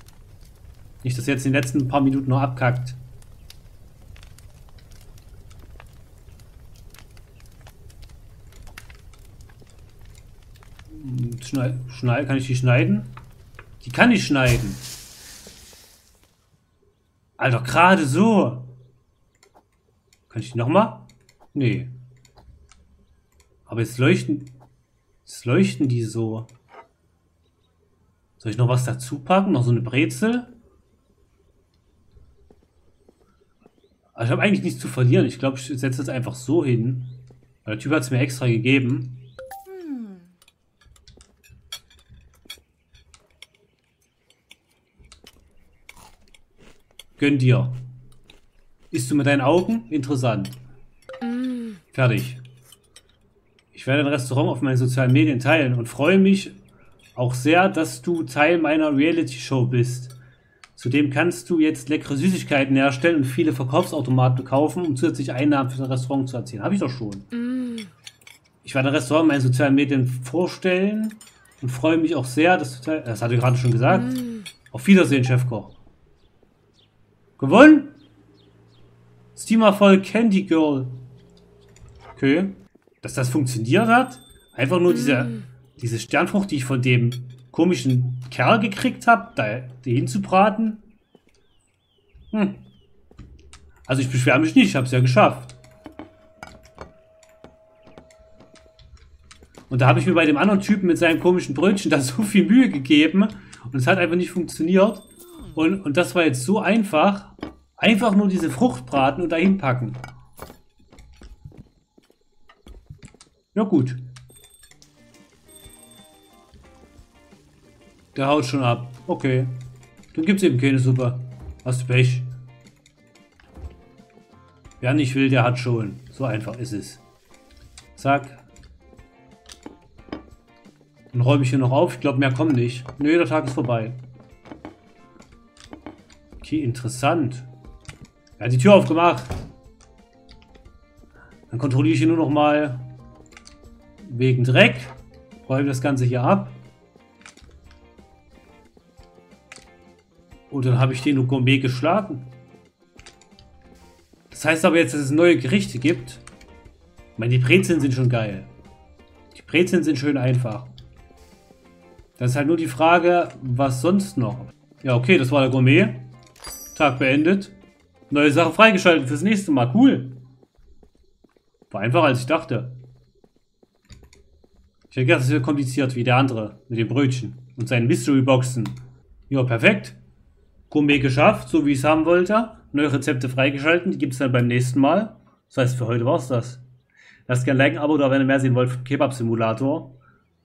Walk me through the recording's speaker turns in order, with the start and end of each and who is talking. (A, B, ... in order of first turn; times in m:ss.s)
0:01.0-0:03.0 A
0:10.9-0:13.1 A
0:13.8-0:14.8 A
0:17.4-0:18.7 A
0:20.3-0:21.9 A
0:23.7-0:24.5 A
0:25.2-0:26.5 A
0:28.4-0:30.5 A
0:34.1-0:39.2 A
0:47.2-0:47.8 A
0:48.9-0:50.6 A
0:51.9-0:52.4 A
0:53.7-0:56.6 A
0:57.1-1:00.1 A
1:00.8-1:07.3 A
1:08.6-1:15.7 A
1:17.4-1:18.0 A
1:19.3-1:20.9 A
1:22.2-1:30.8 A
1:32.3-1:32.6 A
1:33.9-1:35.5 A
1:39.7-1:50.0 A
1:53.5-1:54.0 A
1:58.1-1:59.5 A
2:00.1-2:02.3 A
2:04.8-2:07.0 A
2:08.0-2:08.4 A
2:11.1-2:14.0 A
2:16.4-2:17.5 A
2:18.4-2:19.4 A
2:21.5-2:22.8 A
2:24.0-2:26.6 A
2:30.5-2:32.3 A
2:34.3-2:36.2 A
2:37.2-2:38.5 A
2:39.3-2:40.7 A
2:42.2-2:46.1 A
2:46.7-2:47.5 A
2:48.1-2:50.2 A
2:51.7-2:52.8 A
2:54.9-2:58.7 A
2:59.3-3:00.0 A
3:00.7-3:06.6 A
3:07.3-3:10.0 A